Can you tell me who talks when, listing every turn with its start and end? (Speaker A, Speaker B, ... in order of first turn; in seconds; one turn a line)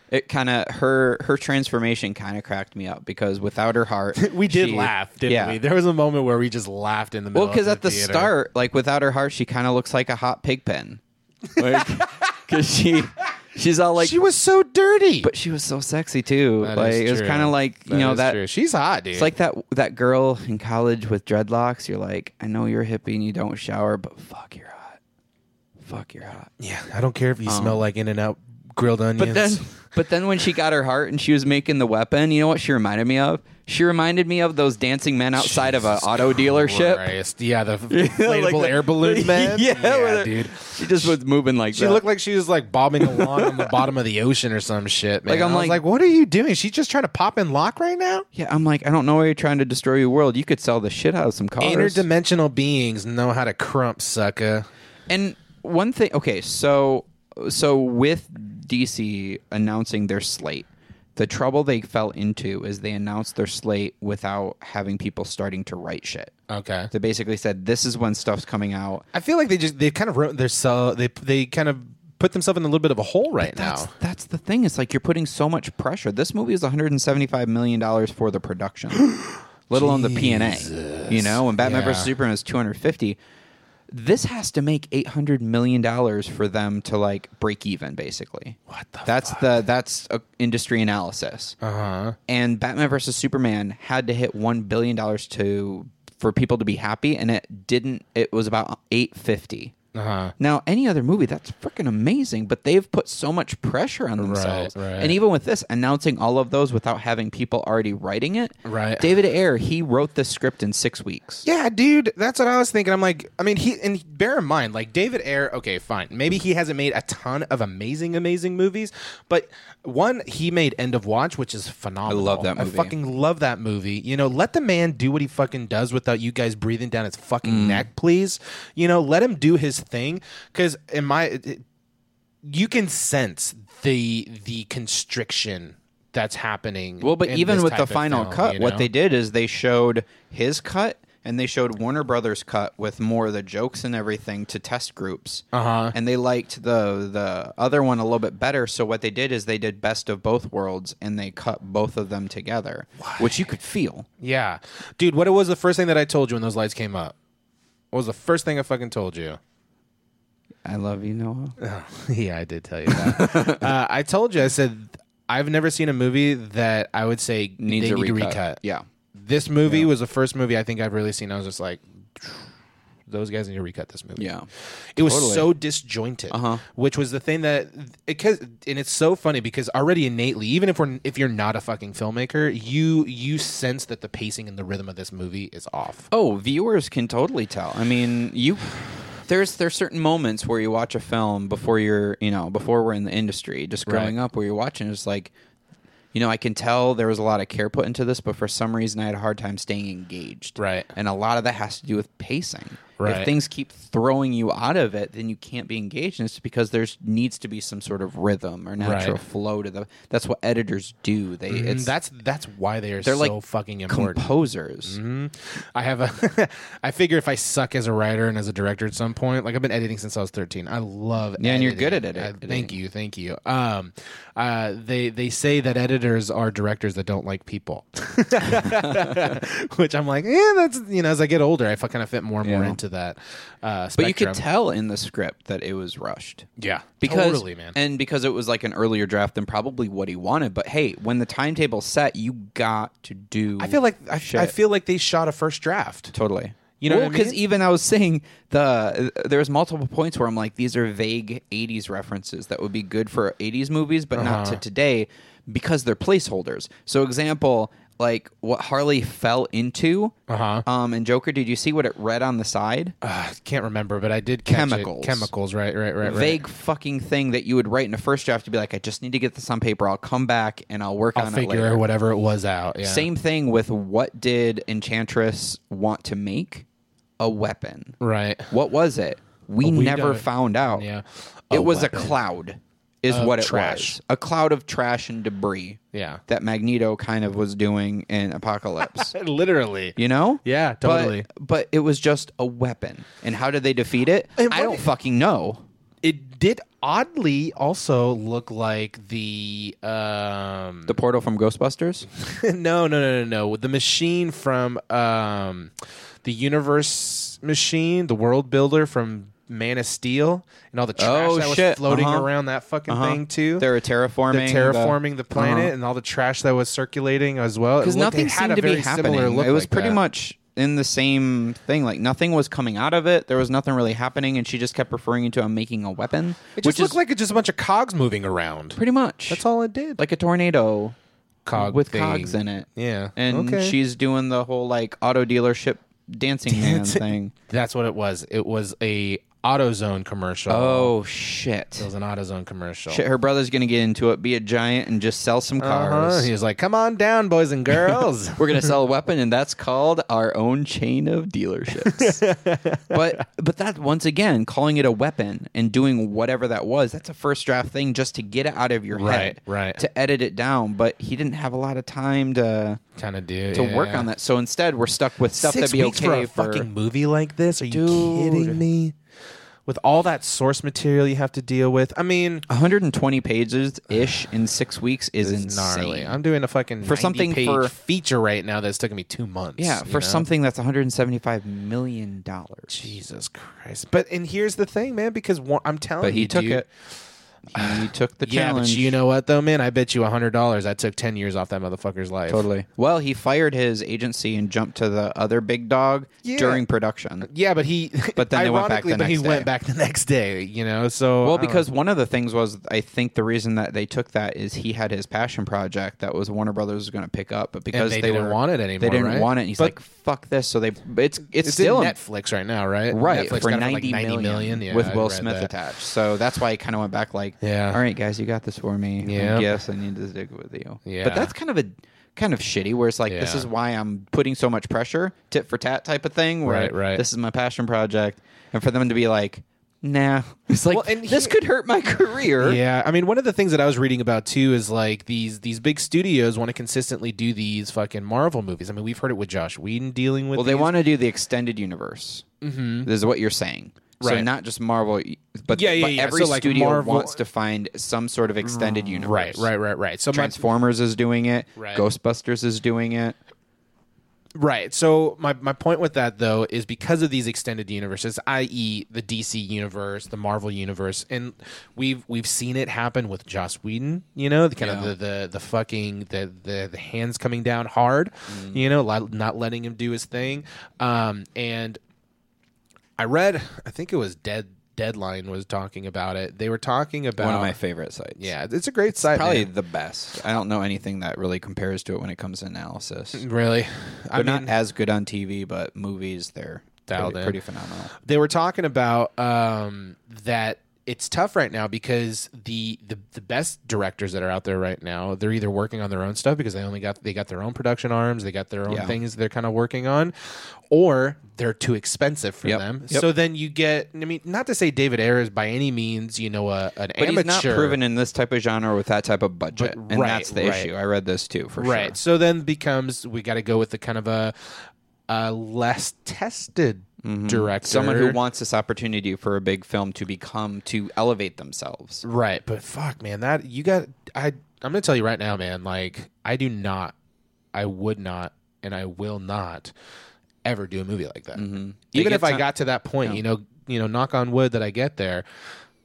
Speaker A: 0.1-5.6
Speaker B: 4.2-8.3
Speaker A: 7.3-11.0
Speaker A: 11.6-14.2
Speaker B: 11.6-12.3
Speaker B: 14.0-15.3
Speaker A: 15.2-18.4
Speaker B: 16.6-19.3
Speaker A: 19.1-25.0
Speaker A: 25.8-26.5
Speaker B: 26.6-29.6
Speaker A: 27.4-27.8
Speaker A: 29.2-37.1
Speaker B: 35.4-41.2
Speaker A: 37.9-42.0
Speaker B: 41.7-48.2
Speaker A: 43.0-43.8
Speaker A: 45.2-45.8
Speaker A: 48.3-52.0
Speaker B: 51.6-54.6
Speaker A: 55.1-66.3
Speaker B: 66.5-66.9
Speaker A: 66.9-69.0
Speaker B: 69.1-73.9
Speaker A: 73.4-79.0
Speaker B: 79.0-82.1
Speaker A: 79.7-83.2
Speaker A: 83.9-91.5
Speaker B: 88.7-89.6
Speaker B: 91.6-92.2
Speaker A: 92.3-99.7
Speaker B: 99.9-100.3
Speaker A: 100.4-111.4
Speaker B: 104.2-105.2
Speaker B: 108.6-109.1
Speaker B: 111.4-131.6
Speaker A: 122.1-122.9
Speaker A: 127.4-127.9
Speaker B: 132.4-138.9
Speaker A: 137.0-154.1
Speaker B: 145.5-145.9
Speaker B: 153.0-153.5
Speaker B: 154.2-157.2
Speaker B: 157.9-159.4
Speaker A: 160.6-161.6
Speaker B: 161.6-168.6
Speaker A: 162.9-163.6
Speaker A: 167.6-168.8
Speaker B: 169.1-172.5
Speaker B: 173.1-174.3
Speaker A: 174.2-175.5
Speaker B: 174.9-186.1
Speaker A: 176.3-176.6
Speaker A: 186.1-195.3
Speaker B: 193.8-194.1
Speaker A: 196.1-211.9
Speaker B: 200.6-200.9
Speaker B: 203.0-203.3
Speaker B: 208.8-209.2
Speaker B: 211.5-214.3
Speaker A: 213.0-213.4
Speaker A: 213.9-215.0
Speaker B: 214.8-234.4
Speaker A: 221.4-222.7
Speaker A: 228.6-229.3
Speaker A: 232.4-232.8
Speaker A: 233.9-236.5
Speaker B: 236.6-237.8
Speaker A: 237.0-244.5
Speaker B: 243.6-246.1
Speaker A: 246.1-260.1
Speaker B: 246.8-247.4
Speaker B: 254.1-254.6
Speaker B: 260.3-260.6
Speaker A: 260.6-262.9
Speaker B: 263.0-266.4
Speaker A: 264.5-265.3
Speaker A: 266.0-271.8
Speaker B: 271.1-273.1
Speaker A: 272.8-276.6
Speaker A: 277.2-277.9
Speaker B: 278.0-278.5
Speaker A: 278.5-280.9
Speaker B: 279.6-282.1
Speaker A: 281.5-289.1
Speaker B: 283.1-284.0
Speaker B: 285.9-286.2
Speaker B: 288.8-291.2
Speaker A: 289.9-295.6
Speaker B: 294.4-294.9
Speaker B: 296.0-300.9
Speaker A: 300.9-302.1
Speaker B: 302.2-305.7
Speaker B: 306.2-313.7
Speaker A: 311.0-312.3
Speaker A: 312.9-315.7
Speaker B: 314.3-320.0
Speaker A: 317.8-327.0
Speaker B: 326.6-328.8
Speaker A: 328.7-329.4
Speaker B: 329.3-330.0
Speaker A: 330.0-330.9
Speaker B: 331.4-333.8
Speaker A: 331.5-337.3
Speaker B: 336.5-340.9
Speaker A: 340.5-341.9
Speaker B: 341.8-343.0
Speaker A: 342.9-346.3
Speaker B: 345.6-348.7
Speaker A: 348.4-352.2
Speaker B: 351.8-353.2
Speaker A: 352.9-362.8
Speaker B: 358.9-359.8
Speaker B: 363.0-364.1
Speaker A: 363.5-366.7
Speaker B: 365.3-368.9
Speaker A: 367.7-368.6
Speaker B: 369.6-372.4
Speaker A: 372.5-376.1
Speaker B: 375.2-380.2
Speaker A: 376.8-377.7
Speaker A: 379.6-382.9
Speaker B: 382.7-386.7
Speaker A: 386.0-386.6
Speaker A: 387.5-388.9
Speaker B: 387.5-392.5
Speaker A: 392.3-397.3
Speaker B: 396.2-396.6
Speaker B: 397.2-401.6
Speaker A: 398.1-399.5
Speaker A: 401.2-411.9
Speaker B: 407.7-409.8
Speaker B: 411.4-415.5
Speaker A: 412.9-432.6
Speaker B: 417.4-417.8
Speaker B: 419.0-419.5
Speaker B: 420.9-421.3
Speaker B: 423.1-423.5
Speaker B: 426.4-427.0
Speaker B: 430.7-431.4
Speaker B: 432.4-440.7
Speaker A: 440.3-442.2
Speaker B: 442.4-442.9
Speaker A: 442.8-449.5
Speaker B: 444.0-444.3
Speaker B: 445.5-447.2
Speaker B: 448.4-450.4
Speaker A: 450.1-453.1
Speaker B: 451.6-451.8
Speaker B: 454.4-471.8
Speaker A: 464.6-464.9
Speaker A: 468.3-468.6
Speaker B: 473.0-477.6
Speaker A: 477.2-478.3
Speaker B: 478.2-479.5
Speaker A: 479.1-483.2
Speaker B: 483.1-484.5
Speaker A: 484.1-487.9
Speaker B: 486.9-487.4
Speaker B: 487.9-507.8
Speaker A: 498.7-499.0
Speaker A: 502.4-503.1
Speaker A: 507.0-512.0
Speaker B: 509.5-510.7
Speaker B: 511.6-518.2
Speaker A: 517.0-522.0
Speaker B: 522.0-527.0
Speaker B: 527.5-529.7
Speaker B: 530.4-535.4
Speaker A: 531.3-532.4